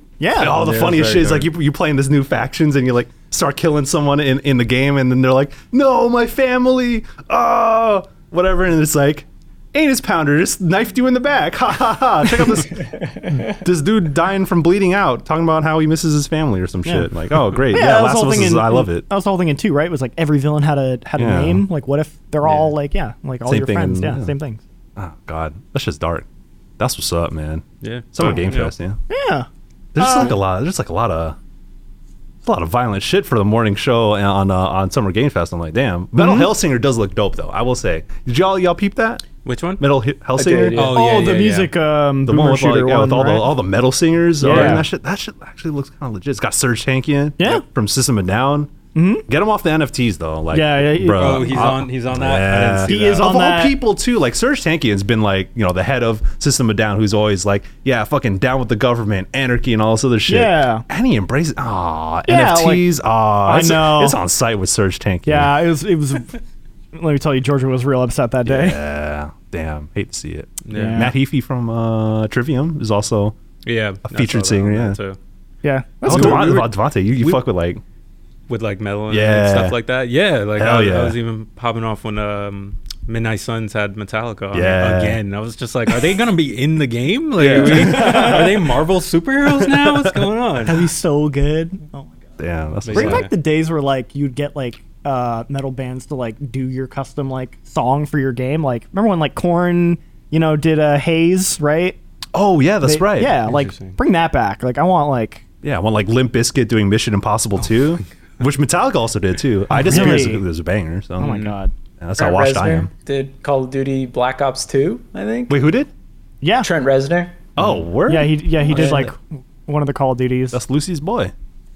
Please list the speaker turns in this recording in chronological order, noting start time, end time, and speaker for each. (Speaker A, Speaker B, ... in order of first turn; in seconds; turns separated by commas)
Speaker A: 0.2-0.7, Speaker B: 0.4-12.8, Speaker C: 0.6-1.5, Speaker D: 12.9-13.5, Speaker B: 13.4-19.0, Speaker A: 17.7-24.6, Speaker B: 21.2-21.6, Speaker C: 22.4-22.7, Speaker B: 23.5-24.3, Speaker B: 25.0-26.2, Speaker B: 26.8-29.0, Speaker C: 27.8-28.7, Speaker A: 29.1-29.5, Speaker B: 29.9-31.4, Speaker A: 30.0-30.4, Speaker B: 32.4-39.2, Speaker A: 36.1-36.5, Speaker C: 39.4-39.8, Speaker B: 39.8-40.9, Speaker D: 40.4-41.0, Speaker C: 40.7-41.7, Speaker A: 40.9-43.5, Speaker B: 42.2-48.7, Speaker A: 44.4-44.9, Speaker C: 44.4-44.8, Speaker A: 47.4-47.6, Speaker A: 48.9-49.2, Speaker B: 49.3-65.5, Speaker A: 50.5-51.7, Speaker C: 51.1-53.2, Speaker A: 52.9-53.8, Speaker A: 60.3-60.9, Speaker A: 62.3-62.9, Speaker A: 63.4-64.2, Speaker A: 65.3-66.4, Speaker A: 66.9-68.8, Speaker B: 68.4-73.4, Speaker C: 70.7-71.1, Speaker A: 70.7-71.1, Speaker C: 73.7-75.2, Speaker B: 74.0-75.0, Speaker A: 75.6-76.7, Speaker C: 76.0-76.5, Speaker B: 76.0-77.8, Speaker C: 78.5-90.8, Speaker B: 79.1-79.8, Speaker B: 80.6-81.2, Speaker B: 84.5-85.2, Speaker B: 87.4-88.7, Speaker A: 87.7-88.6, Speaker B: 89.5-90.2, Speaker A: 90.6-92.2, Speaker B: 92.4-93.3, Speaker C: 92.9-93.3, Speaker A: 92.9-102.0, Speaker B: 102.3-103.4, Speaker A: 102.8-105.4, Speaker C: 103.4-104.0, Speaker B: 105.6-111.4, Speaker A: 109.7-110.4, Speaker A: 111.2-111.7, Speaker C: 111.2-111.5, Speaker B: 112.0-112.9, Speaker D: 112.2-115.6, Speaker B: 115.5-115.9, Speaker A: 116.4-116.7, Speaker D: 116.6-117.5, Speaker B: 117.6-119.1, Speaker C: 117.6-117.8, Speaker A: 118.1-120.6, Speaker B: 120.5-121.3